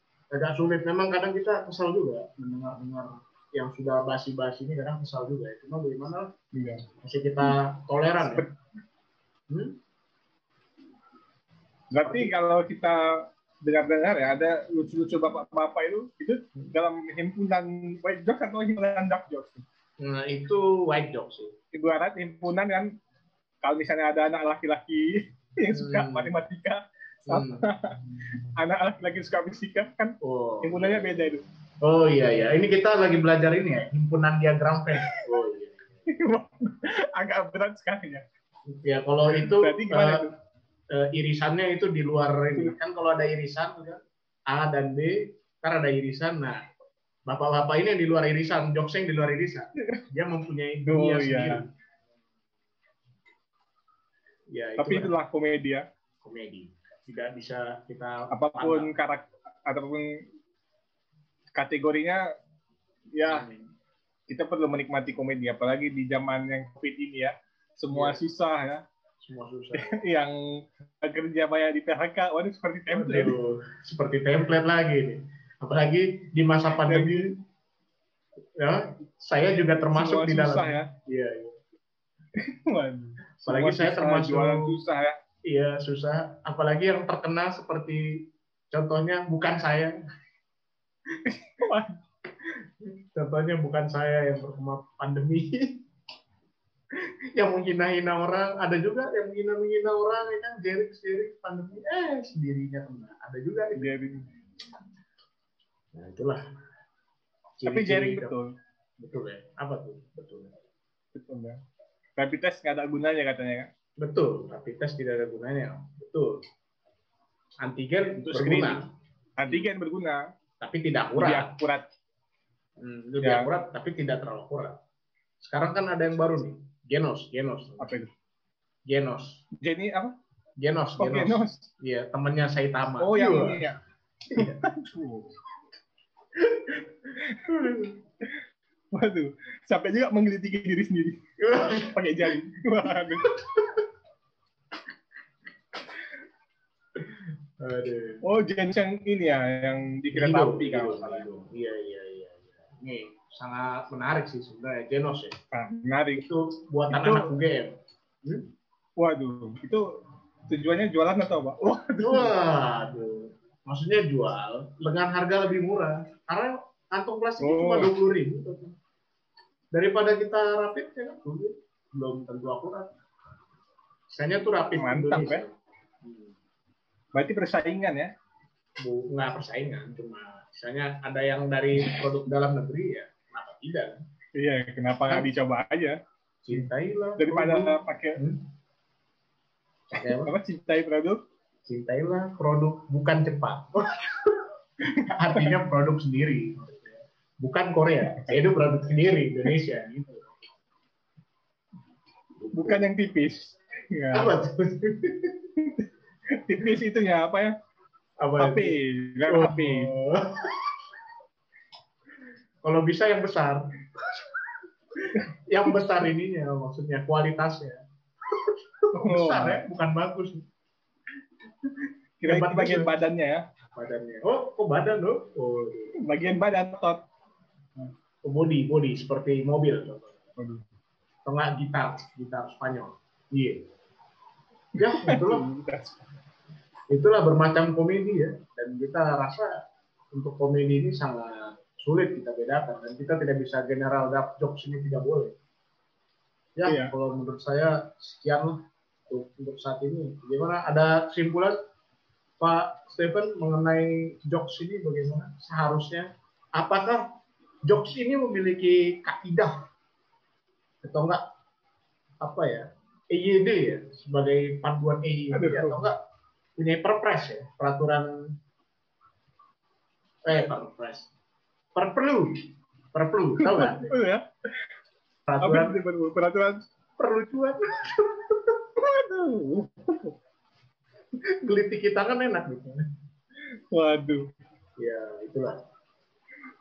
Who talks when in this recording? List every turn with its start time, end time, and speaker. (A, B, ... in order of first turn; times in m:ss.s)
0:00.3-0:06.3 A
0:06.5-0:06.8 B
0:07.0-0:08.5 A
0:08.2-0:08.5 B
0:09.5-0:09.8 A
0:11.9-0:19.6 B
0:12.0-0:12.3 A
0:20.0-0:21.5 A
0:21.7-0:22.9 B
0:23.6-0:28.0 B
0:25.7-0:26.4 A
0:27.3-0:27.7 A
0:28.6-0:31.4 B
0:30.2-0:35.9 A
0:36.1-0:38.2 B
0:38.7-0:40.3 A
0:39.4-0:40.3 B
0:40.9-0:46.6 A
0:47.3-0:51.6 A
0:50.9-0:51.6 B
0:54.5-0:55.1 A
0:54.8-0:55.9 B
0:56.2-0:58.9 A
0:58.3-1:00.2 B
1:01.6-1:02.2 B
1:03.2-1:03.5 B
1:03.2-1:03.7 A
1:04.3-1:08.8 B
1:07.9-1:08.2 A
1:09.2-1:10.0 A
1:09.8-1:13.4 B
1:12.9-1:17.3 A
1:16.9-1:17.3 B
1:18.6-1:21.6 A
1:19.9-1:20.9 B
1:22.4-1:25.2 B
1:23.4-1:24.8 A
1:25.5-1:29.9 A
1:31.3-1:32.0 B
1:32.9-1:35.8 A
1:37.4-1:43.9 A
1:43.8-1:44.2 B
1:46.0-1:46.4 A
1:47.6-1:48.3 A
1:47.7-1:48.5 B
1:49.0-1:50.5 A
1:51.1-1:51.6 B
1:52.2-1:53.7 B
1:54.0-1:56.4 A
1:57.6-1:58.9 A
1:58.2-1:58.8 B
1:59.4-2:00.2 B
2:00.6-2:01.6 A
2:01.2-2:01.9 B
2:02.8-2:04.8 A
2:03.2-2:03.5 B
2:05.4-2:07.9 A
2:07.8-2:08.1 B
2:08.9-2:09.4 A
2:09.6-2:10.2 B
2:10.6-2:13.7 A
2:11.0-2:11.7 B
2:13.0-2:13.8 B
2:14.3-2:14.6 A
2:14.4-2:15.3 B
2:16.4-2:16.9 A
2:17.2-2:17.9 B
2:17.5-2:18.0 A
2:18.9-2:21.2 B
2:21.4-2:22.0 A
2:21.8-2:23.3 B
2:22.9-2:23.8 A
2:27.0-2:28.2 A
2:28.2-2:31.2 B
2:30.1-2:35.3 A
2:35.5-2:36.3 B
2:36.2-2:38.5 A
2:36.9-2:37.3 B
2:39.0-2:39.9 B
2:40.5-2:42.3 B
2:42.0-2:48.7 A
2:47.4-2:47.9 B
2:49.7-2:52.9 A
2:54.1-2:56.4 A
2:54.8-2:55.4 B
2:57.2-2:58.1 B
2:58.8-3:04.0 A
3:04.4-3:06.0 B
3:05.1-3:05.3 A
3:06.4-3:08.4 A
3:07.2-3:08.2 B
3:09.9-3:10.3 A
3:10.2-3:11.2 B
3:11.7-3:14.4 A
3:15.0-3:15.5 B
3:15.0-3:20.3 A
3:22.4-3:22.8 A
3:22.5-3:24.3 B
3:24.1-3:25.4 A
3:25.6-3:25.8 B
3:26.4-3:27.5 B
3:28.2-3:28.7 A
3:28.4-3:29.9 B
3:29.3-3:30.7 A
3:32.6-3:34.3 A
3:35.5-3:40.4 A
3:39.0-3:39.6 B
3:42.2-3:43.4 B
3:42.2-3:43.0 A
3:43.8-3:46.0 A
3:46.0-3:47.0 B
3:48.2-3:50.2 A
3:50.4-3:50.6 B
3:51.3-3:53.6 A
3:54.8-3:55.5 A
3:54.8-3:56.0 B
3:56.9-3:59.5 A
4:00.1-4:05.3 A
4:06.6-4:08.6 A
4:06.7-4:06.9 B
4:09.1-4:11.6 A
4:12.4-4:17.0 A
4:17.7-4:19.6 A
4:20.8-4:21.2 A
4:22.2-4:26.0 A
4:25.3-4:25.8 B
4:26.6-4:28.1 A
4:30.2-4:31.1 A
4:31.8-4:33.9 A
4:33.4-4:34.2 B
4:35.3-4:35.8 A
4:35.4-4:36.6 B
4:37.0-4:38.6 A
4:38.8-4:40.1 B
4:41.4-4:42.8 A
4:43.7-4:44.3 B
4:44.8-4:45.6 A